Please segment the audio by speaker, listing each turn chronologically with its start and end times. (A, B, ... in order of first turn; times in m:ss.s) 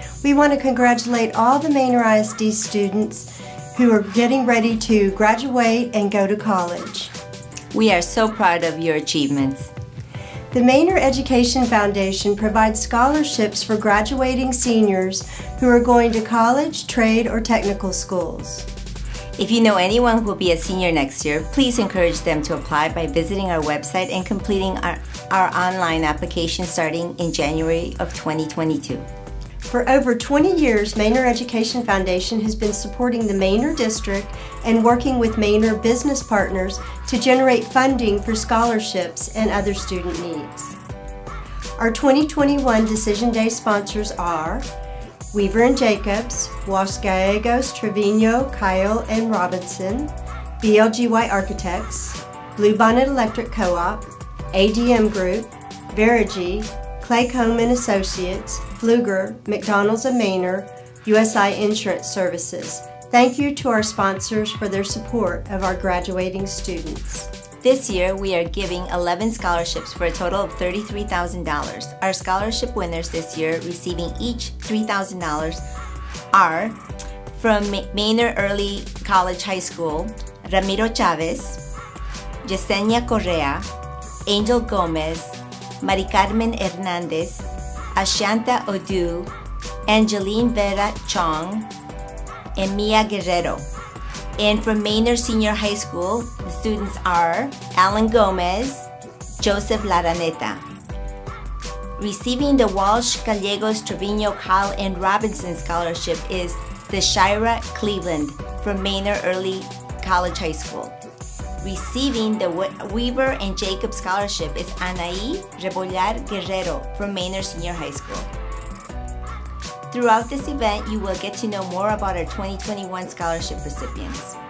0:00.2-0:07.1 A
0:07.7-0:09.7 B
0:10.5-0:18.7 A
0:19.4-0:29.0 B
0:29.7-0:40.8 A
0:41.8-0:44.6 A
0:45.3-1:07.3 A
1:07.6-1:15.6 B
1:16.3-1:16.8 B
1:17.3-1:21.6 B
1:22.4-1:23.6 B
1:24.3-1:29.3 B
1:29.9-1:31.7 B
1:32.6-1:33.7 B
1:34.4-1:38.9 B
1:39.4-1:40.6 B
1:42.0-1:50.9 B
1:51.6-1:58.3 B
1:59.9-2:04.4 B